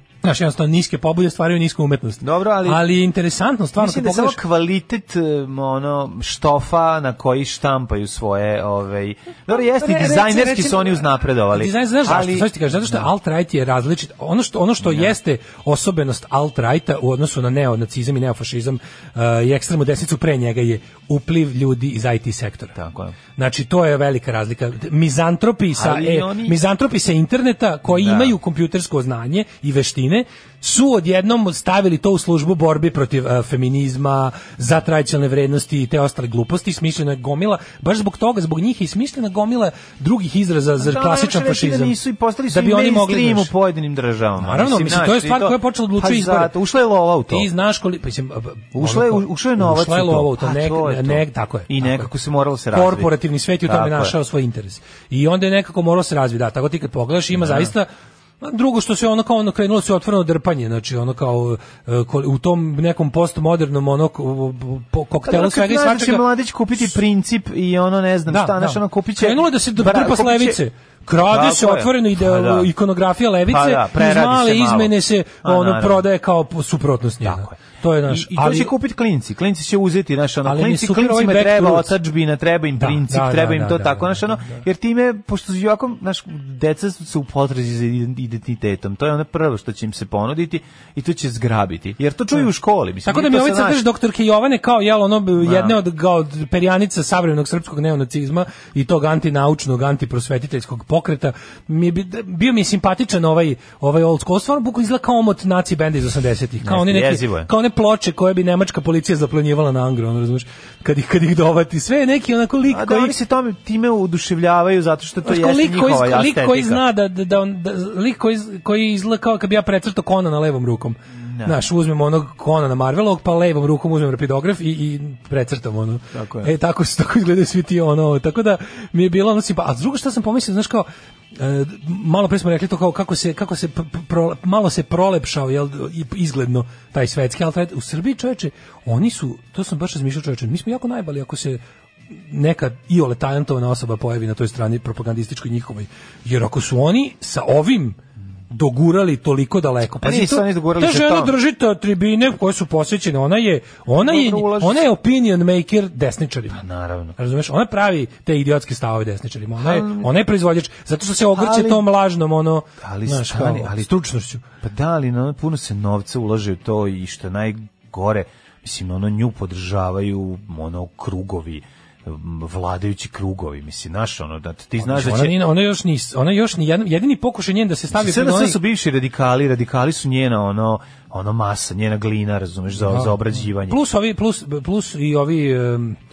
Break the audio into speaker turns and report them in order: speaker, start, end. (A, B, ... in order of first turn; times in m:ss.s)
0:00.2-0:04.4 A
0:02.2-0:02.8 B
0:03.8-0:13.0 B
0:09.5-0:22.7 A
0:14.8-0:15.1 B
0:22.7-0:23.2 B
0:23.4-0:42.0 A
0:25.7-0:26.6 B
0:27.9-0:28.4 B
0:40.8-0:47.5 B
0:42.5-0:43.5 A
0:44.4-0:46.5 A
0:47.3-0:52.1 A
0:48.7-0:54.1 B
0:52.7-0:57.9 A
0:57.3-0:57.7 B
0:58.4-1:06.2 A
1:05.2-1:10.6 B
1:08.3-1:18.7 A
1:11.2-1:12.7 B
1:13.5-1:16.0 B
1:17.2-1:33.8 B
1:20.4-1:22.0 A
1:22.8-1:24.6 A
1:33.0-1:53.1 A
1:35.4-1:35.8 B
1:46.6-1:47.5 B
1:52.7-1:56.8 B
1:55.2-2:21.6 A
2:01.2-2:01.6 B
2:06.1-2:06.5 B
2:22.3-2:28.0 A
2:28.5-2:36.6 A
2:30.0-2:31.3 B
2:33.9-2:34.8 B
2:36.5-2:37.2 B
2:37.2-2:44.4 A
2:39.6-2:40.1 B
2:41.3-2:41.8 B
2:42.8-2:43.9 B
2:44.6-2:55.4 B
2:54.8-2:58.6 A
2:57.9-3:03.8 B
3:02.8-3:06.0 A